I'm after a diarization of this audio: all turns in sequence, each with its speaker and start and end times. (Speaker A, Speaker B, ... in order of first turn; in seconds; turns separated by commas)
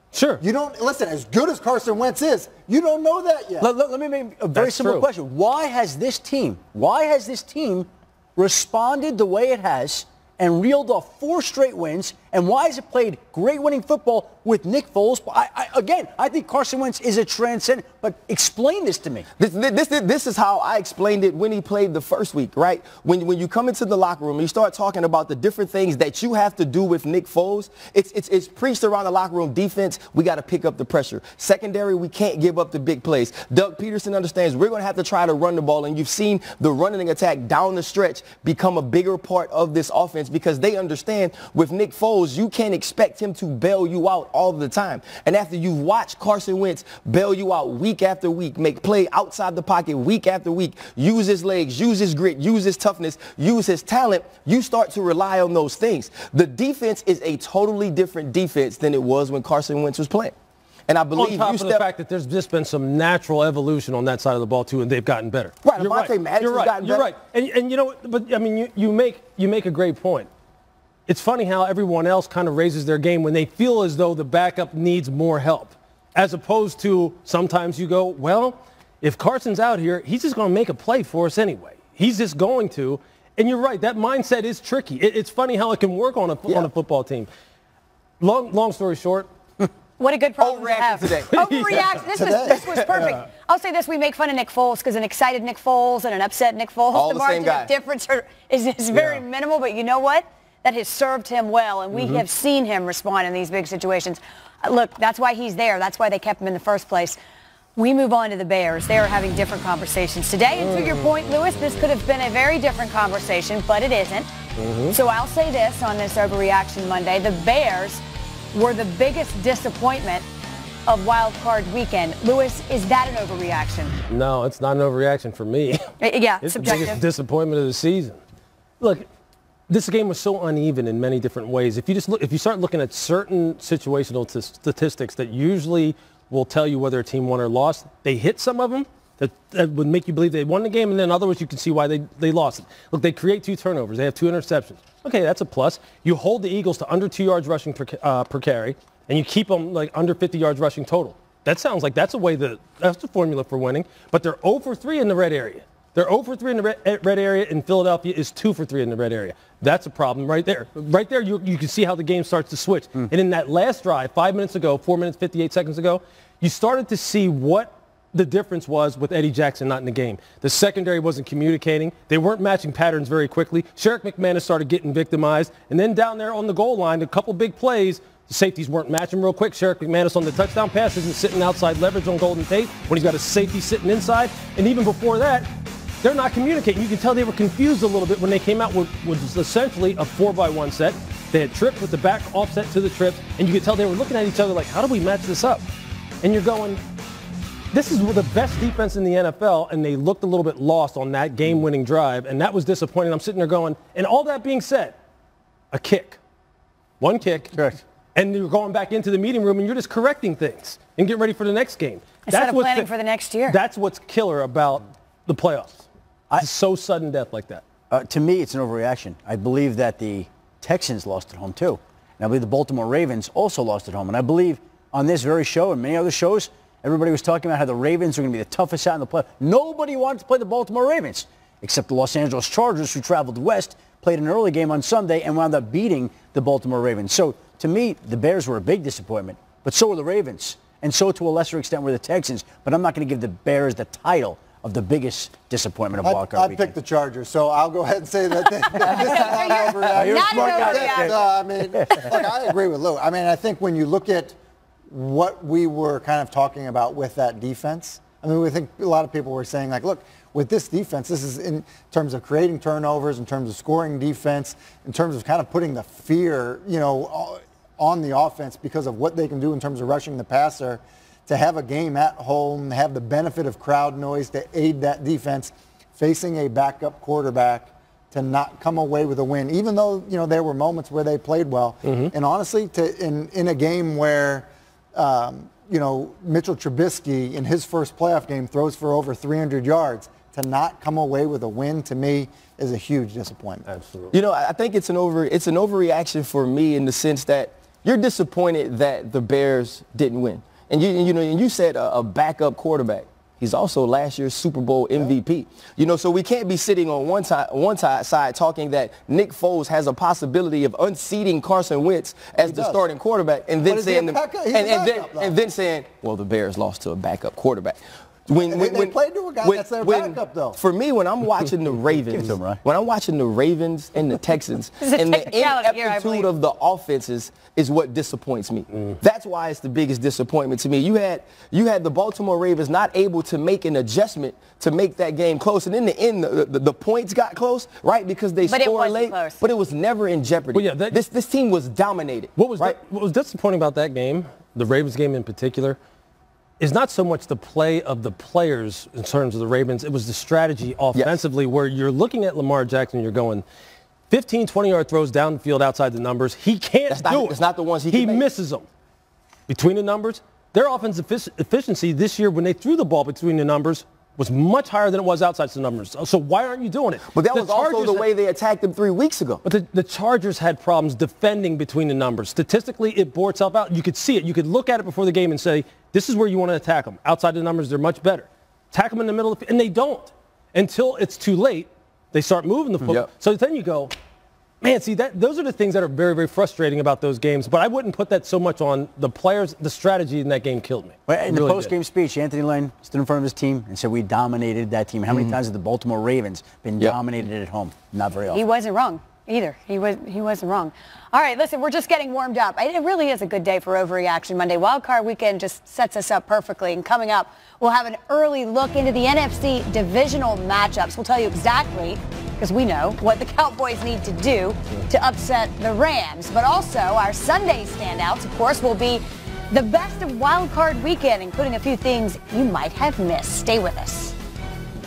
Speaker A: 0.1-0.4, Speaker B: 0.4-3.7, Speaker C: 3.6-19.2, Speaker A: 4.5-5.1, Speaker D: 19.4-60.4, Speaker D: 60.9-61.9, Speaker A: 61.1-70.3, Speaker D: 65.6-67.1, Speaker A: 71.1-87.3, Speaker A: 88.2-89.3, Speaker E: 90.0-107.2, Speaker D: 90.4-91.3, Speaker A: 91.2-92.1, Speaker B: 92.1-93.2, Speaker D: 92.5-92.8, Speaker D: 96.9-97.7, Speaker A: 98.9-99.2, Speaker A: 101.9-102.2, Speaker E: 107.8-114.3, Speaker A: 110.5-111.7, Speaker A: 114.6-115.0, Speaker E: 114.9-120.2, Speaker E: 120.9-124.0, Speaker A: 124.1-125.9, Speaker E: 126.0-127.0, Speaker A: 126.4-128.2, Speaker A: 128.8-129.1, Speaker A: 129.7-195.7, Speaker A: 196.2-196.8, Speaker A: 197.7-205.0, Speaker A: 205.7-206.2, Speaker A: 207.0-207.6, Speaker C: 207.5-207.8, Speaker A: 208.1-212.9, Speaker E: 212.3-213.6, Speaker A: 213.5-215.8, Speaker A: 216.4-217.6, Speaker C: 217.9-246.8, Speaker B: 246.0-254.4, Speaker C: 248.7-249.1, Speaker E: 248.9-251.4, Speaker C: 249.9-252.2, Speaker B: 254.9-293.6, Speaker A: 281.9-282.1, Speaker A: 293.7-294.1, Speaker D: 294.1-342.8, Speaker B: 312.4-312.8, Speaker B: 313.6-315.4, Speaker B: 318.4-320.6, Speaker C: 322.1-322.6, Speaker E: 324.8-326.3, Speaker E: 338.4-339.4, Speaker A: 340.5-341.0, Speaker A: 342.4-345.8, Speaker A: 346.6-353.4, Speaker D: 350.9-351.2, Speaker A: 354.1-358.6, Speaker D: 356.9-358.2, Speaker A: 359.5-368.1, Speaker D: 367.1-369.4, Speaker A: 369.4-383.9, Speaker A: 384.6-391.7, Speaker C: 391.1-398.4, Speaker D: 395.1-395.4, Speaker E: 398.3-424.1